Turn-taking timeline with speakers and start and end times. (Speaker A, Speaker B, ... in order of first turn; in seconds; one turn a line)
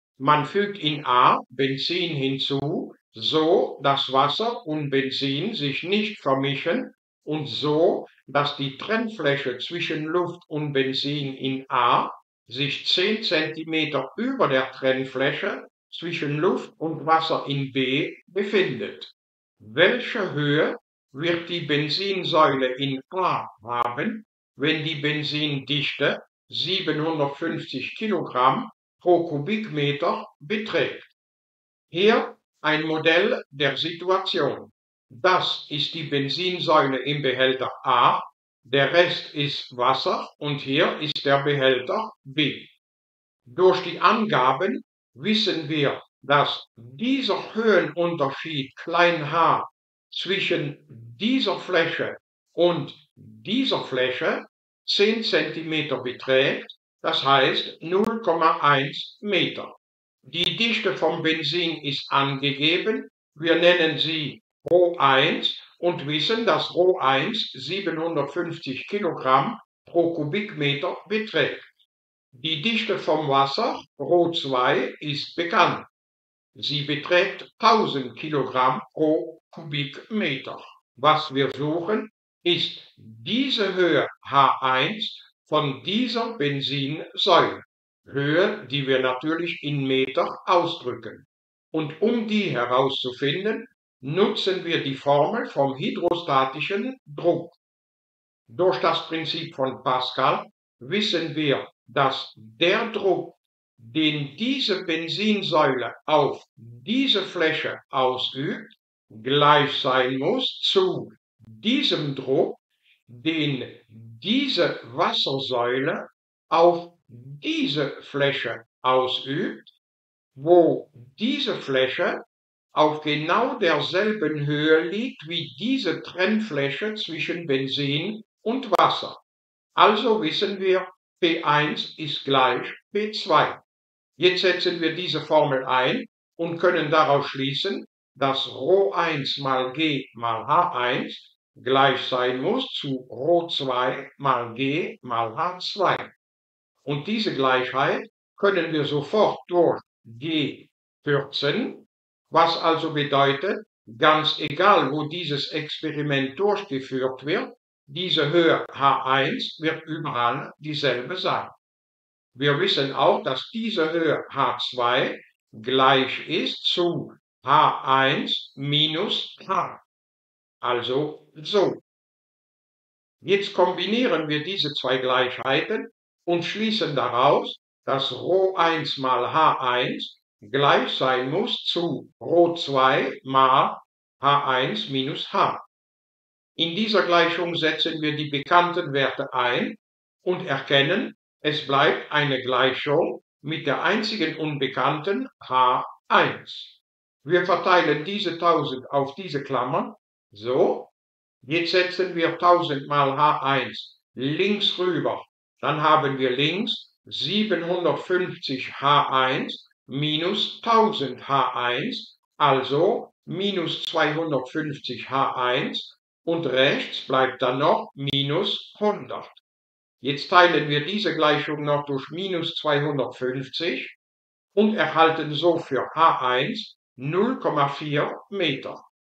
Speaker A: 0.2-31.1
Speaker A: 31.9-42.7
Speaker A: 43.5-59.7
Speaker A: 60.2-71.7
Speaker A: 72.3-75.9
Speaker A: 76.5-97.6
Speaker A: 98.5-119.7
Speaker A: 120.4-122.2
Speaker A: 122.7-129.2
Speaker A: 129.8-133.6
Speaker A: 134.2-146.1
Speaker A: 146.8-161.5
Speaker A: 162.3-169.8
Speaker A: 170.6-171.8
Speaker A: 173.2-185.6
Speaker A: 186.6-200.9
Speaker A: 201.4-219.4
Speaker A: 220.0-223.9
Speaker A: 224.6-228.8